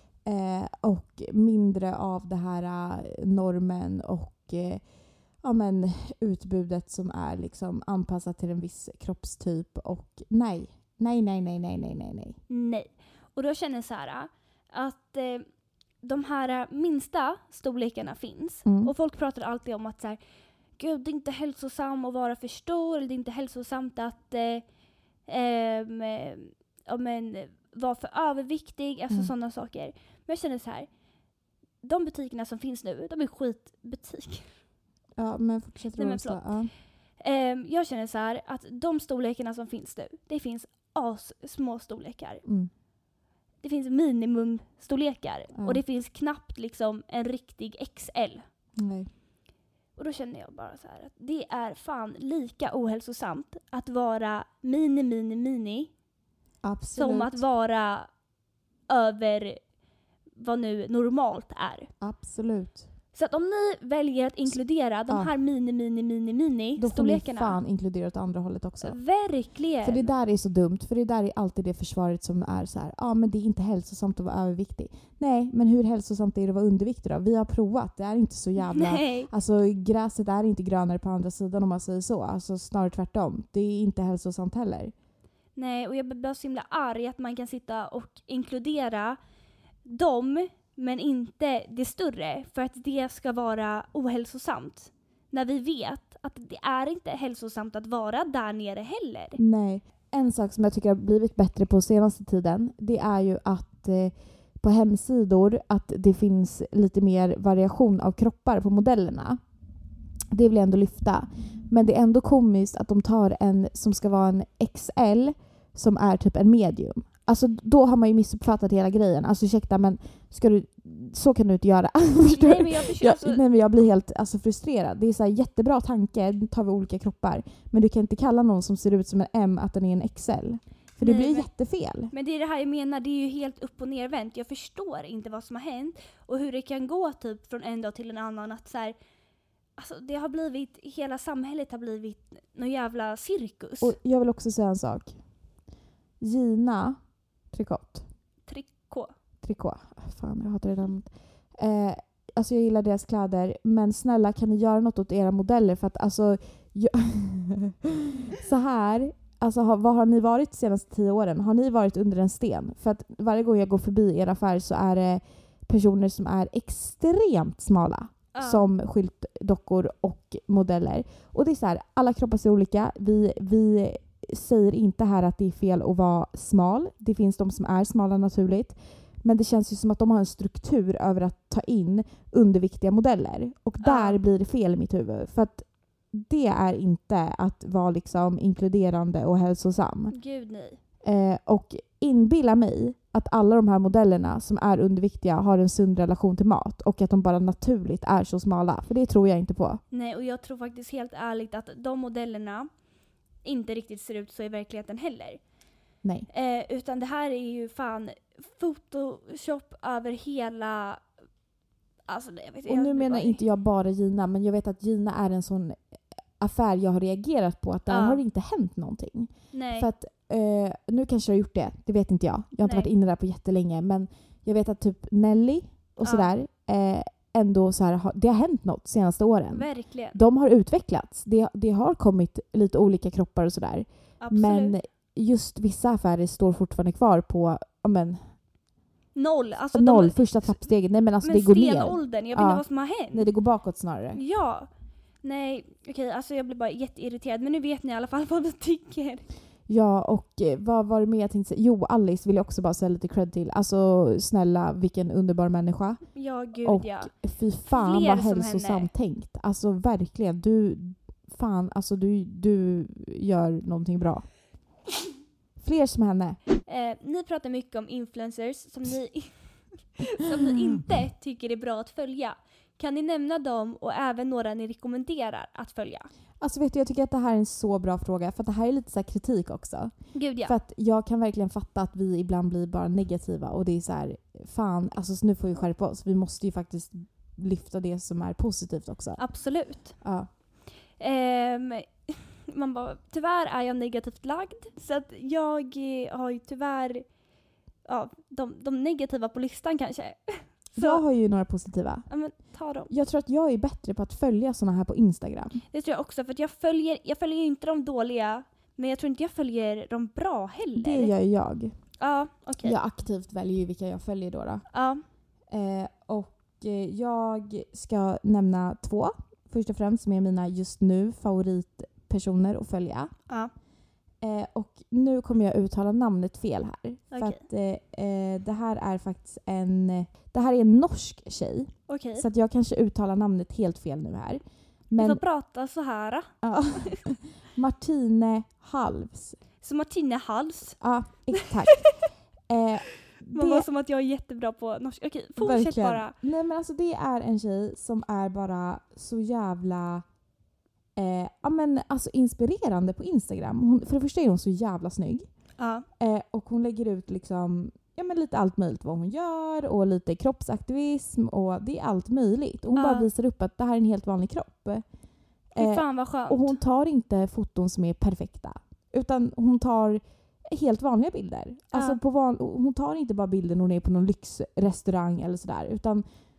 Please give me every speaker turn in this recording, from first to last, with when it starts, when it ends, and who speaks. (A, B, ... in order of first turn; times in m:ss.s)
0:00.2-0:04.8 A
0:05.4-0:12.4 A
0:12.5-0:15.5 B
0:16.0-0:20.2 B
0:18.6-0:18.9 A
0:20.8-0:24.6 B
0:25.3-0:30.9 B
0:31.8-0:34.5 B
0:35.2-0:36.7 A
0:36.0-0:36.4 B
0:37.2-0:42.4 B
0:42.4-0:42.7 A
0:43.6-0:48.4 B
0:45.6-0:45.8 A
0:48.8-0:49.1 A
0:50.0-0:55.9 B
0:56.6-0:57.4 A
0:57.0-0:58.1 B
0:58.9-0:59.6 B
1:00.4-1:01.9 B
1:02.0-1:02.9 A
1:03.1-1:07.6 B
1:06.8-1:09.0 A
1:08.8-1:10.1 B
1:09.8-1:24.9 A
1:18.6-1:19.3 B
1:25.6-1:29.2 B
1:29.8-1:39.4 B
1:39.4-1:49.4 A
1:50.3-2:12.1 A
2:02.2-2:03.4 B
2:11.0-2:11.5 B
2:12.1-2:19.0 B
2:19.8-2:24.0 B
2:23.8-2:25.2 A
2:26.2-2:27.0 A
2:27.5-2:28.0 A
2:28.5-2:29.1 B
2:29.4-3:10.2 A
2:48.3-2:48.7 B
3:03.8-3:04.2 B
3:10.1-3:10.8 B
3:11.0-3:19.8 A
3:19.9-3:22.7 B
3:23.4-3:25.4 B
3:26.0-3:26.3 A
3:26.3-3:31.0 B
3:32.1-3:33.4 B
3:32.7-3:35.8 A
3:36.4-3:58.2 A
3:37.9-3:38.2 B
3:39.5-3:39.9 B
3:42.6-3:42.9 B
3:46.0-3:46.3 B
3:49.5-3:50.2 B
3:54.2-3:54.8 B
3:59.2-4:00.6 B
3:59.7-4:04.2 A
4:01.2-4:03.3 B
4:04.1-4:04.7 B
4:05.2-4:09.2 B
4:09.7-4:24.3 A
4:16.2-4:17.1 B
4:17.7-4:18.9 B
4:25.6-4:26.4 A
4:26.7-4:29.4 B
4:30.0-4:36.1 B
4:36.4-4:39.9 A
4:40.1-4:40.6 B
4:40.4-4:49.2 A
4:49.2-4:50.0 B
4:50.0-4:50.3 A
4:51.0-4:57.1 B
4:57.8-5:01.0 B
5:00.7-5:02.1 A
5:02.1-5:02.9 B
5:02.9-5:05.6 A
5:05.7-5:11.1 B
5:10.8-5:11.8 A
5:12.0-5:12.8 B
5:12.6-5:14.6 A
5:14.7-5:15.0 B
5:15.5-5:23.1 A
5:24.2-5:35.2 A
5:27.1-5:27.4 B
5:31.9-5:32.3 B
5:35.0-5:37.0 B
5:36.4-5:39.4 A
5:39.6-5:40.8 B
5:40.8-5:41.9 A
5:41.3-5:41.9 B
5:42.5-5:43.7 A
5:43.3-5:46.2 B
5:45.4-5:50.0 A
5:51.0-5:55.3 A
5:55.6-5:55.9 B
5:56.0-6:04.8 A
6:02.8-6:03.1 B
6:05.6-6:16.0 A
6:05.6-6:06.6 B
6:11.7-6:12.0 B